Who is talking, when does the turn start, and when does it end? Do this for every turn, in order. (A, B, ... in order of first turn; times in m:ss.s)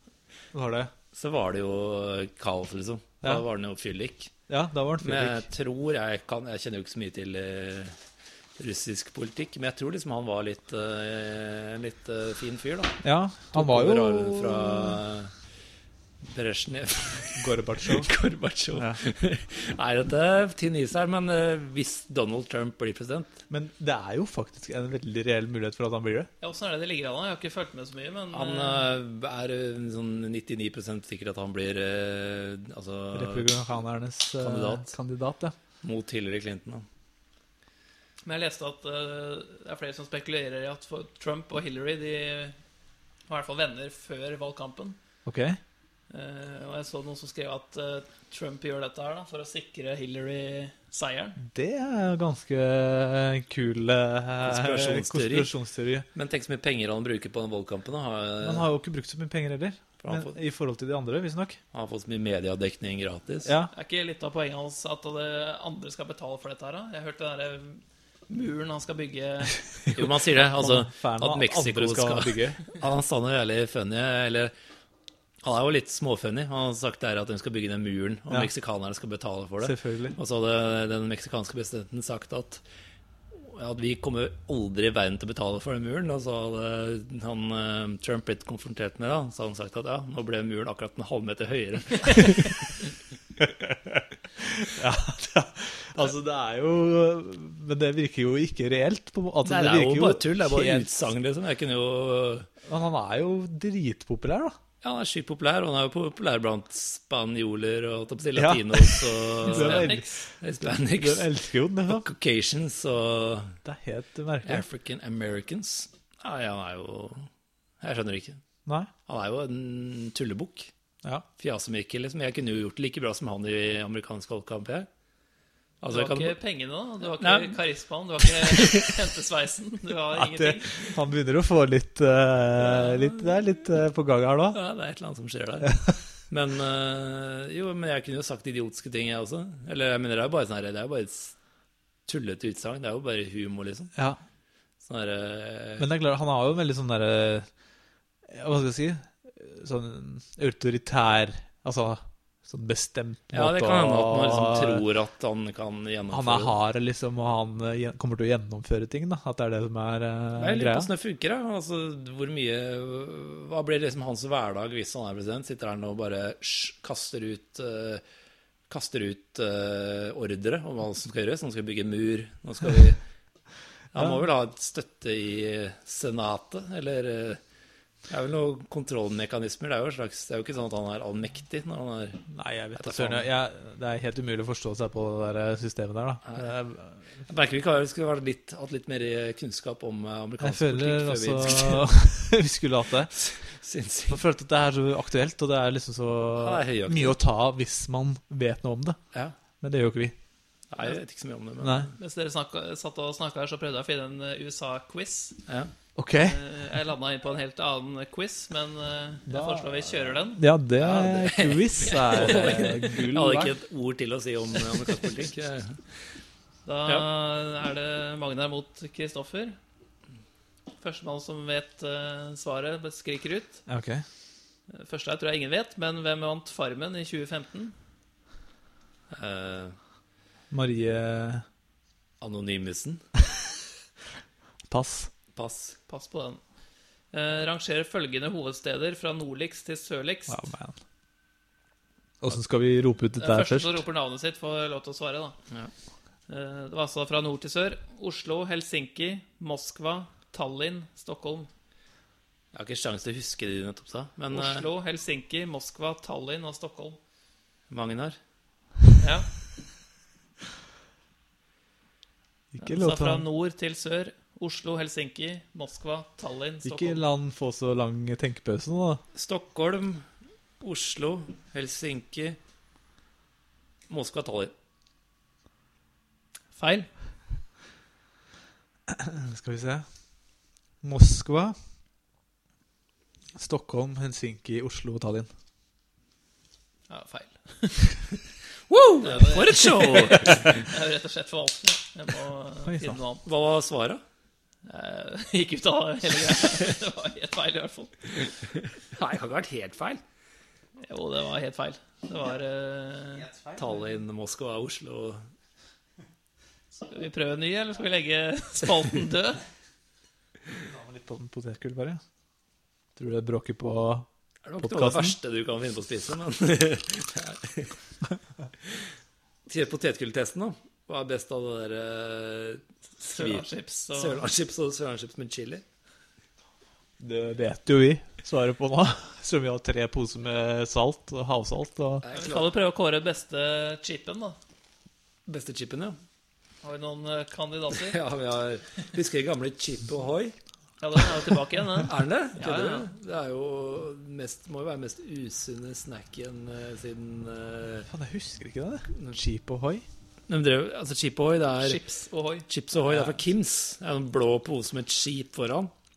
0:00.5-0:00.9 A
0:01.1-0:04.3 B
0:04.5-0:05.4 A
0:05.0-0:08.0 B
0:08.6-0:13.0 B
0:13.0-0:15.0 A
0:13.5-0:15.3 B
0:16.3-0:23.4 B
0:17.4-0:18.1 A
0:18.7-0:19.0 A
0:23.5-0:26.3 A
0:26.4-0:28.9 C
0:28.3-0:33.5 B
0:33.1-0:35.5 A
0:34.4-0:34.9 B
0:35.8-0:36.8 B
0:38.2-0:42.6 C
0:43.3-0:45.0 C
0:45.2-0:45.6 A
0:46.1-0:51.4 C
0:51.4-0:56.0 A
0:54.4-0:55.5 B
0:56.1-0:58.7 B
0:58.4-1:01.6 A
1:00.0-1:00.4 B
1:01.7-1:03.5 B
1:03.4-1:03.7 A
1:03.7-1:09.9 C
1:09.9-1:14.5 B
1:10.6-1:12.6 A
1:15.4-1:22.6 B
1:19.6-1:20.2 A
1:23.3-1:32.6 B
1:33.4-1:40.9 A
1:39.4-1:42.5 B
1:42.6-1:44.5 A
1:44.8-1:51.3 B
1:48.3-1:50.1 A
1:49.4-1:50.3 C
1:50.9-1:52.1 A
1:51.9-1:53.6 B
1:53.6-1:54.6 A
1:54.4-1:57.3 B
1:57.8-1:58.4 B
1:59.1-2:00.7 B
2:01.4-2:04.9 B
2:05.8-2:06.4 B
2:05.9-2:11.0 C
2:07.2-2:07.6 B
2:08.4-2:08.9 B
2:10.1-2:14.6 A
2:14.5-2:21.3 B
2:22.1-2:23.9 B
2:23.9-2:24.2 A
2:24.8-2:25.9 B
2:25.8-2:27.5 A
2:28.3-2:34.8 A
2:33.3-2:36.5 B
2:36.1-2:40.9 A
2:40.4-2:48.0 B
2:48.7-2:53.0 B
2:53.9-2:57.4 B
2:58.1-3:03.2 B
3:02.3-3:07.0 A
3:07.3-3:11.9 B
3:10.4-3:13.1 A
3:13.1-3:14.2 B
3:14.1-3:19.0 A
3:16.4-3:17.2 B
3:19.6-3:20.1 A
3:20.7-3:21.9 B
3:21.6-3:21.9 A
3:22.0-3:25.4 C
3:26.0-3:26.4 A
3:26.2-3:30.4 C
3:29.3-3:33.5 A
3:30.8-3:35.9 B
3:31.9-3:32.7 C
3:36.6-3:39.6 C
3:40.8-3:43.6 C
3:43.7-3:44.0 A
3:44.7-3:47.7 C
3:49.1-3:49.8 B
3:50.5-3:51.4 A
3:52.2-3:53.0 B
3:54.7-3:55.1 A
3:55.3-3:55.8 B
3:55.9-3:56.4 C
3:57.1-4:00.4 C
4:00.3-4:00.8 A
4:02.2-4:03.8 A
4:03.2-4:05.4 C
4:06.3-4:11.5 C
4:12.5-4:14.7 B
4:14.3-4:17.0 C
4:17.7-4:18.2 B
4:19.0-4:19.3 C
4:22.5-4:23.2 A
4:22.6-4:27.0 C
4:26.6-4:29.0 A
4:29.1-4:30.1 B
4:30.6-4:32.4 B
4:33.9-4:34.5 B
4:36.5-4:36.9 C
4:38.9-4:39.8 A
4:40.8-4:41.6 A
4:43.4-4:45.3 A
4:46.9-4:48.1 C
4:48.7-4:50.6 B
4:49.0-4:53.2 C
4:52.6-4:53.0 A
4:53.2-4:54.0 B
4:54.6-4:58.3 C
4:58.8-5:00.0 B
5:00.8-5:03.3 C
5:03.5-5:05.2 B
5:06.9-5:09.4 C
5:10.5-5:12.0 A
5:13.0-5:14.1 A
5:14.4-5:17.8 B
5:14.6-5:15.2 A
5:19.5-5:25.6 B
5:23.0-5:24.2 C
5:27.0-5:32.0 A
5:32.0-5:32.5 B
5:32.1-5:34.4 C
5:35.2-5:36.0 B
5:36.6-5:38.0 C
5:37.7-5:40.4 B
5:40.8-5:42.9 C
5:41.8-5:47.9 B
5:47.9-5:49.8 A
5:50.3-5:51.8 B
5:51.6-5:52.5 C
5:52.5-5:55.7 B
5:52.9-5:53.2 A